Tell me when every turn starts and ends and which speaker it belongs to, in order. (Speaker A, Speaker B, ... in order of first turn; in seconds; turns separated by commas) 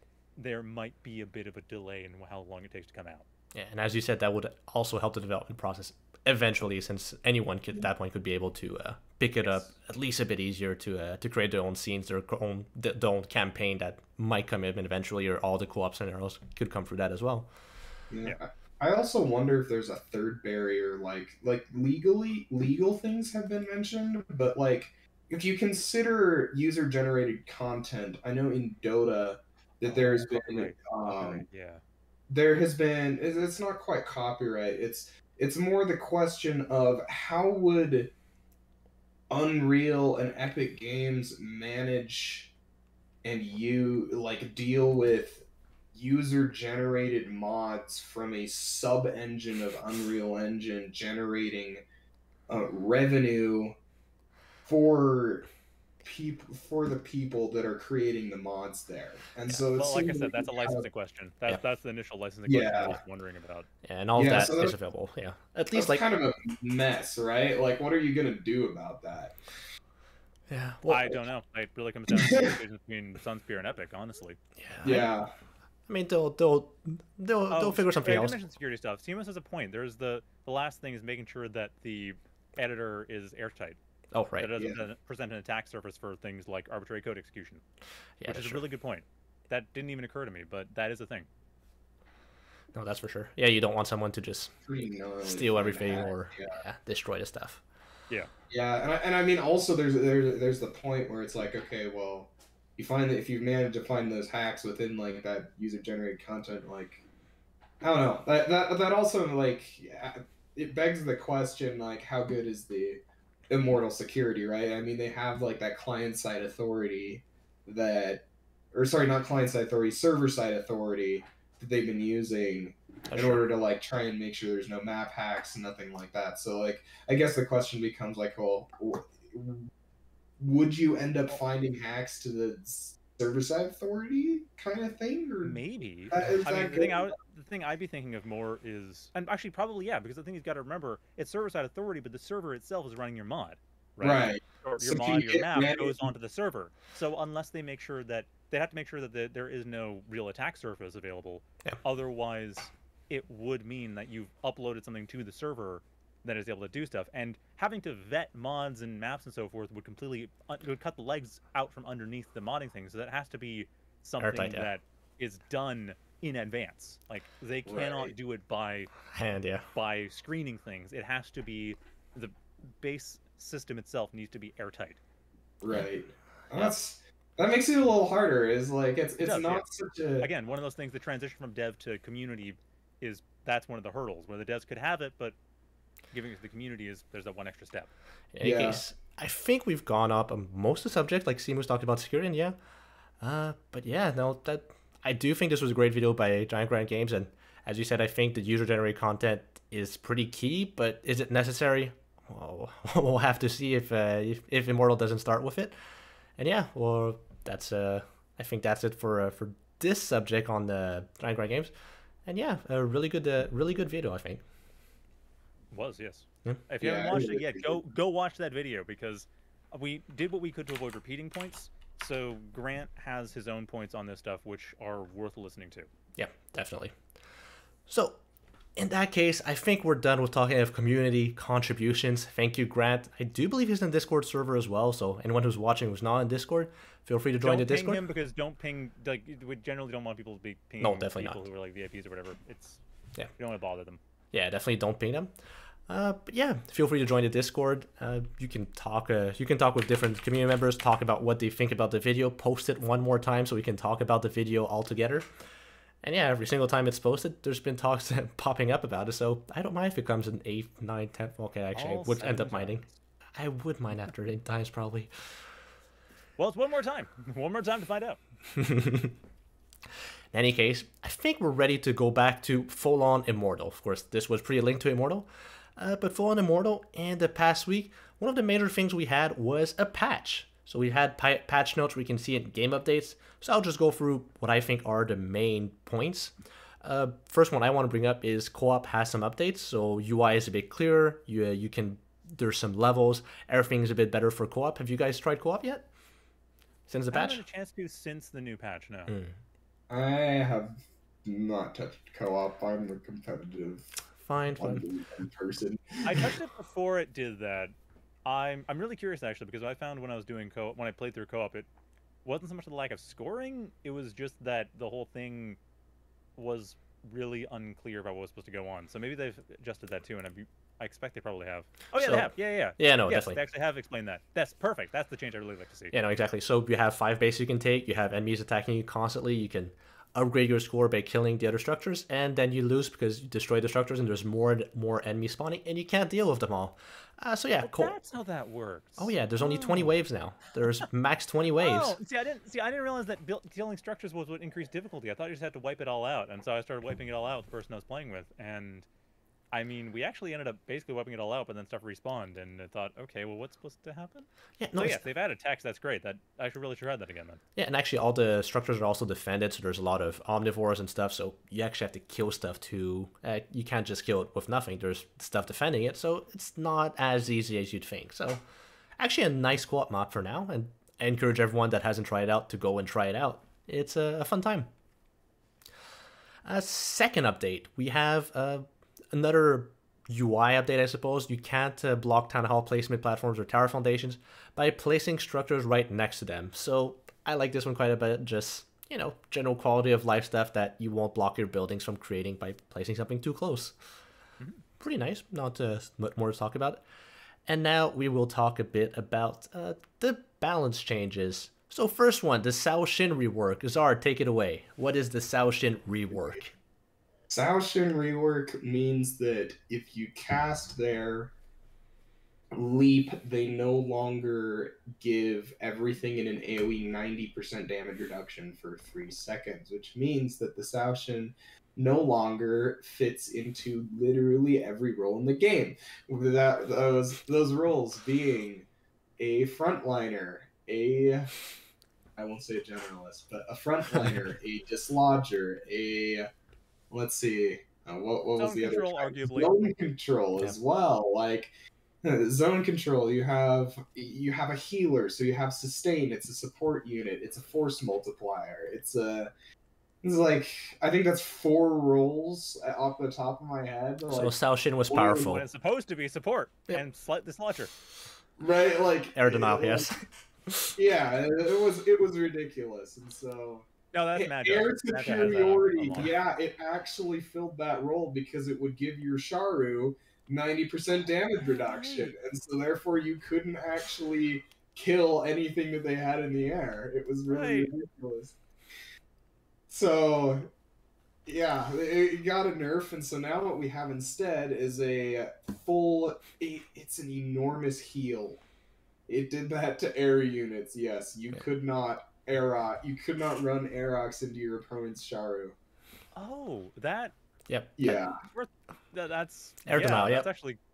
Speaker A: 0.4-3.2, Speaker B: 3.5-17.5, Speaker A: 9.4-9.7, Speaker C: 18.1-31.4, Speaker A: 29.8-31.8, Speaker C: 32.3-38.1, Speaker C: 39.3-42.5, Speaker C: 43.2-51.8, Speaker C: 52.5-53.7, Speaker C: 54.6-55.5, Speaker C: 56.0-60.9, Speaker A: 59.7-63.7, Speaker C: 62.5-63.0, Speaker B: 63.8-66.0, Speaker C: 64.2-64.8, Speaker C: 65.7-69.4, Speaker B: 70.5-71.2, Speaker A: 70.8-74.4, Speaker C: 72.2-72.5, Speaker B: 74.6-75.1, Speaker C: 74.8-75.3, Speaker B: 75.9-78.4, Speaker A: 77.5-83.8, Speaker B: 84.1-84.6, Speaker A: 84.4-87.6, Speaker B: 88.2-88.6, Speaker A: 88.2-91.3, Speaker B: 92.7-94.5, Speaker C: 94.6-96.5, Speaker B: 95.2-97.6, Speaker C: 98.5-107.0, Speaker C: 107.8-129.7, Speaker B: 123.1-123.4, Speaker C: 130.4-135.6, Speaker A: 135.4-168.9, Speaker C: 136.1-137.1, Speaker C: 144.0-146.0, Speaker B: 164.2-164.7, Speaker C: 167.7-168.1, Speaker B: 169.1-169.6, Speaker A: 169.7-175.0, Speaker C: 175.6-180.3, Speaker A: 179.2-179.7, Speaker A: 180.2-185.3, Speaker A: 186.1-187.9, Speaker B: 188.3-192.6, Speaker C: 188.4-188.8, Speaker B: 193.2-205.7, Speaker B: 206.4-211.7, Speaker B: 212.2-214.4, Speaker A: 215.7-225.9, Speaker C: 216.8-217.8, Speaker B: 226.2-226.9, Speaker B: 227.9-228.2, Speaker B: 228.8-238.0, Speaker A: 237.4-242.8, Speaker B: 240.8-241.4, Speaker A: 243.4-244.0, Speaker B: 244.3-245.3, Speaker B: 245.9-255.3, Speaker B: 256.0-262.8, Speaker A: 261.7-262.8, Speaker B: 263.4-265.3, Speaker A: 266.4-268.2, Speaker B: 268.5-269.2, Speaker B: 270.3-295.9, Speaker B: 296.9-297.4, Speaker A: 297.1-299.1, Speaker B: 299.1-299.3, Speaker C: 299.9-303.9, Speaker B: 304.2-304.8, Speaker C: 304.5-306.3, Speaker A: 306.0-311.7, Speaker A: 312.2-315.6, Speaker A: 316.4-325.9, Speaker B: 321.9-323.4, Speaker B: 325.9-337.9, Speaker A: 337.6-339.9, Speaker B: 339.0-342.0, Speaker A: 341.6-348.9, Speaker A: 349.5-357.4, Speaker B: 354.6-355.0, Speaker B: 357.6-368.4, Speaker B: 369.0-374.7, Speaker B: 376.4-393.8, Speaker B: 394.8-396.8, Speaker B: 397.4-406.5, Speaker C: 407.3-411.3, Speaker C: 412.5-428.7, Speaker C: 429.2-431.3, Speaker C: 432.2-436.3, Speaker C: 436.9-441.5, Speaker A: 438.4-439.6, Speaker C: 442.0-449.3, Speaker C: 450.0-454.3, Speaker B: 454.1-455.4, Speaker C: 454.9-455.3, Speaker A: 455.0-457.7, Speaker C: 458.4-459.9, Speaker B: 459.1-460.7, Speaker C: 460.7-478.4, Speaker A: 463.9-466.1, Speaker A: 471.4-472.1, Speaker A: 477.3-477.7, Speaker C: 479.7-480.5, Speaker C: 481.2-488.4, Speaker C: 489.1-495.6, Speaker A: 496.1-497.1, Speaker B: 497.5-498.0, Speaker C: 497.8-498.2, Speaker A: 498.2-500.6, Speaker B: 499.6-500.3